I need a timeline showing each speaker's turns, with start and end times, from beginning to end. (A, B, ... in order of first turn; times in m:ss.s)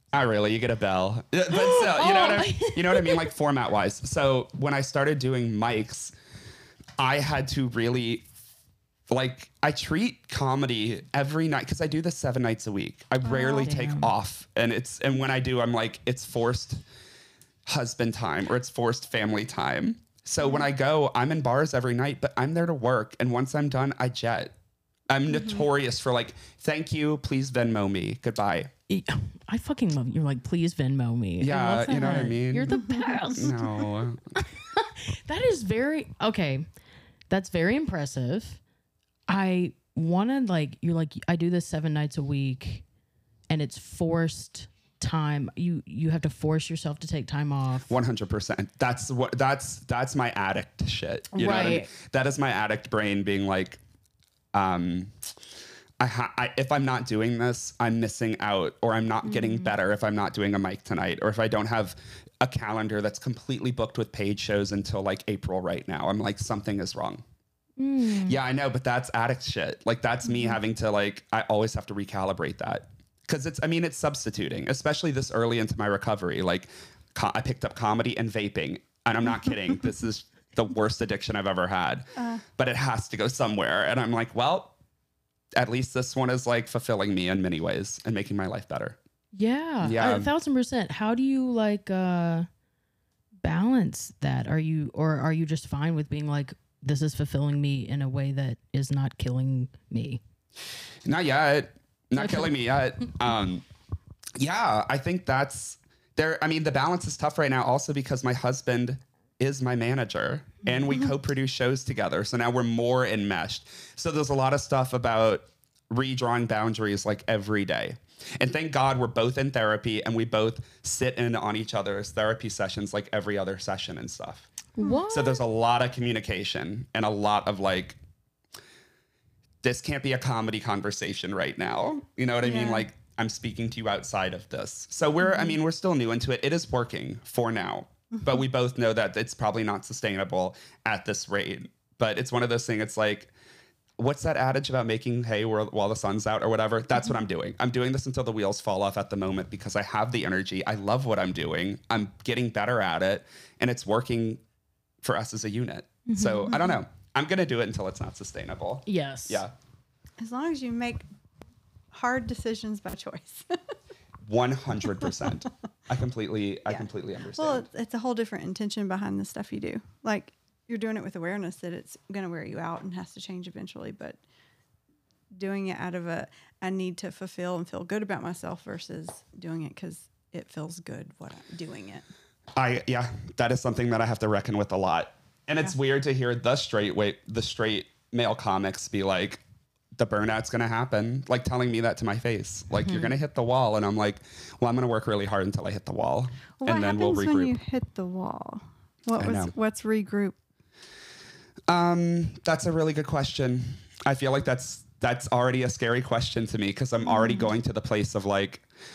0:00.1-0:06.1 A
0:01.5-0:03.3 B
0:07.0-0:08.2 A
0:09.1-0:16.8 A
0:13.2-0:13.7 C
0:13.6-0:14.1 B
0:17.6-0:24.5 A
0:20.4-0:20.7 C
0:25.1-0:28.7 A
0:25.3-0:25.7 C
0:28.9-0:36.6 B
0:31.4-0:32.8 A
0:32.7-0:33.2 C
0:33.3-0:34.2 A
0:37.3-0:38.6 B
0:39.3-0:42.8 B
0:43.5-0:48.0 B
0:47.9-0:53.8 A
0:51.3-0:51.9 B
0:54.5-0:55.3 A
0:56.0-1:07.2 A
0:59.2-0:59.7 B
1:07.8-1:08.4 B
1:08.2-1:24.7 A
1:22.2-1:22.4 C
1:25.6-1:29.0 A
1:29.3-1:32.5 B
1:29.8-1:30.3 A
1:33.4-1:40.2 B
1:41.0-1:43.6 A
1:42.2-1:42.5 B
1:44.4-2:04.5 A
2:04.8-2:05.4 B
2:05.1-2:08.0 A
2:09.6-2:23.3 A
2:12.4-2:12.8 C
2:24.0-2:34.4 A
2:35.0-2:39.5 A
2:36.1-2:36.6 B
2:38.8-2:39.4 B
2:40.2-2:41.0 C
2:41.9-2:43.6 C
2:44.2-2:47.7 A
2:46.7-2:54.2 C
2:55.3-3:02.0 C
3:02.5-3:09.4 A
3:09.9-3:17.6 A
3:12.8-3:13.1 B
3:16.6-3:20.4 C
3:19.2-3:19.5 A
3:21.7-3:28.6 A